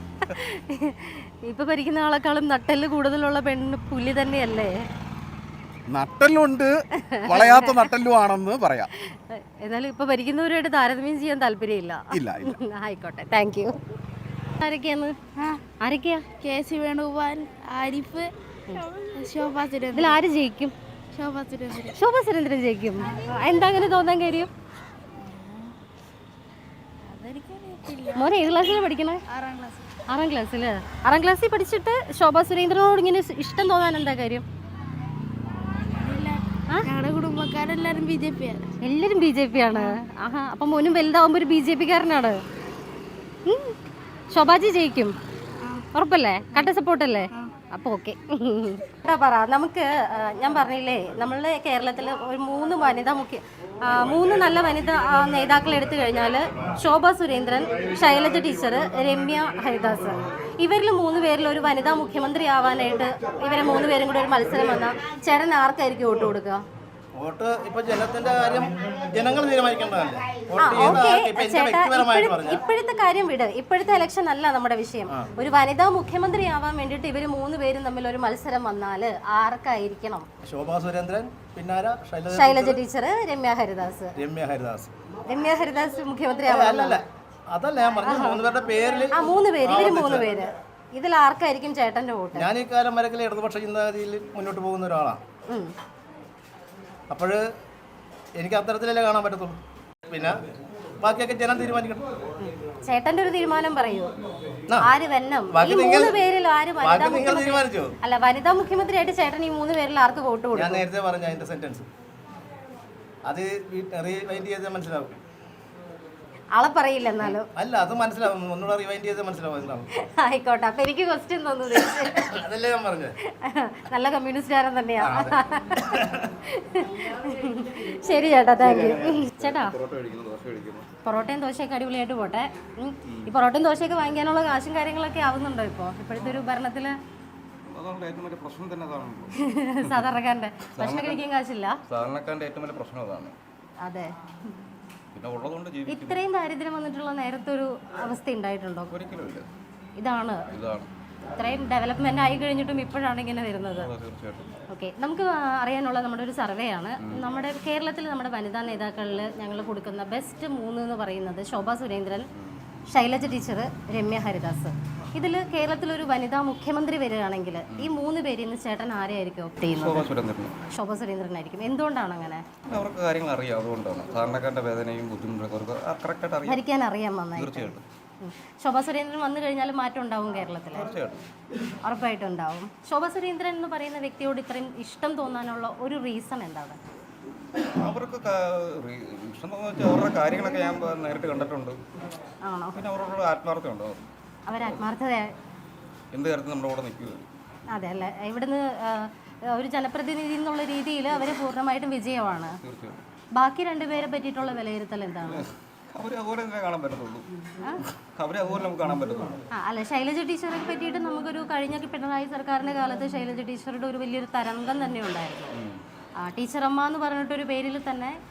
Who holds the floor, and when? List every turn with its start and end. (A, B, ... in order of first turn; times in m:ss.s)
0:00.3-0:04.7 A
0:05.9-0:06.7 B
0:07.0-0:07.8 A
0:07.2-0:08.9 B
0:09.0-0:13.7 A
0:12.1-0:12.6 B
0:14.6-0:15.1 A
0:15.8-0:16.2 A
0:16.4-0:20.1 C
0:19.9-0:20.7 A
0:21.1-0:21.9 C
0:21.9-0:24.5 A
0:25.3-0:25.7 C
0:27.1-0:28.3 C
0:28.1-0:29.2 A
0:29.3-0:29.8 C
0:30.1-0:34.4 A
0:36.0-0:38.6 C
0:38.8-0:42.4 A
0:43.5-0:43.7 A
0:44.3-0:45.1 A
0:45.9-1:06.6 A
1:07.2-1:12.6 D
1:10.6-1:20.3 A
1:20.4-1:22.8 D
1:22.3-1:24.2 A
1:24.2-1:24.9 D
1:25.3-1:27.0 A
1:26.4-1:30.3 D
1:28.0-1:28.4 A
1:29.1-1:32.5 A
1:32.3-1:35.2 D
1:37.1-1:37.4 D
1:38.4-1:39.6 D
1:41.0-1:42.0 D
1:42.4-1:44.1 A
1:44.8-1:50.8 A
1:45.5-1:46.2 D
1:46.8-1:47.9 D
1:50.5-1:51.9 D
1:53.2-1:55.1 D
1:56.5-1:57.5 A
1:57.5-1:59.9 D
2:00.0-2:02.4 A
2:02.2-2:03.1 D
2:03.3-2:09.8 A
2:05.0-2:06.3 D
2:08.6-2:10.9 E
2:11.0-2:16.9 A
2:17.7-2:20.1 E
2:19.5-2:21.7 A
2:20.7-2:21.2 E
2:21.9-2:23.4 E
2:23.8-2:24.1 A
2:25.1-2:26.2 E
2:25.9-2:28.9 A
2:28.9-2:29.4 E
2:30.0-2:30.4 A
2:30.5-2:30.9 E
2:31.4-2:33.9 A
2:33.8-2:34.6 E
2:34.7-2:42.2 A
2:37.0-2:37.3 E
2:42.9-2:50.1 A
2:47.7-2:48.0 E
2:49.6-2:50.6 E
2:50.7-2:52.4 A
2:52.7-2:56.6 E
2:56.4-3:00.9 A
2:57.4-2:57.8 E
3:00.8-3:01.2 E
3:01.8-3:06.8 A
3:07.8-3:11.8 E
3:12.4-3:12.8 A
3:12.7-3:14.0 E
3:14.5-3:15.3 A
3:16.1-3:17.3 E
3:17.7-3:22.6 A
3:22.6-3:23.0 E
3:23.4-3:25.4 A
3:25.4-3:27.3 E
3:28.2-3:29.4 E
3:29.5-3:35.5 A
3:35.5-3:35.8 E
3:36.2-3:38.2 A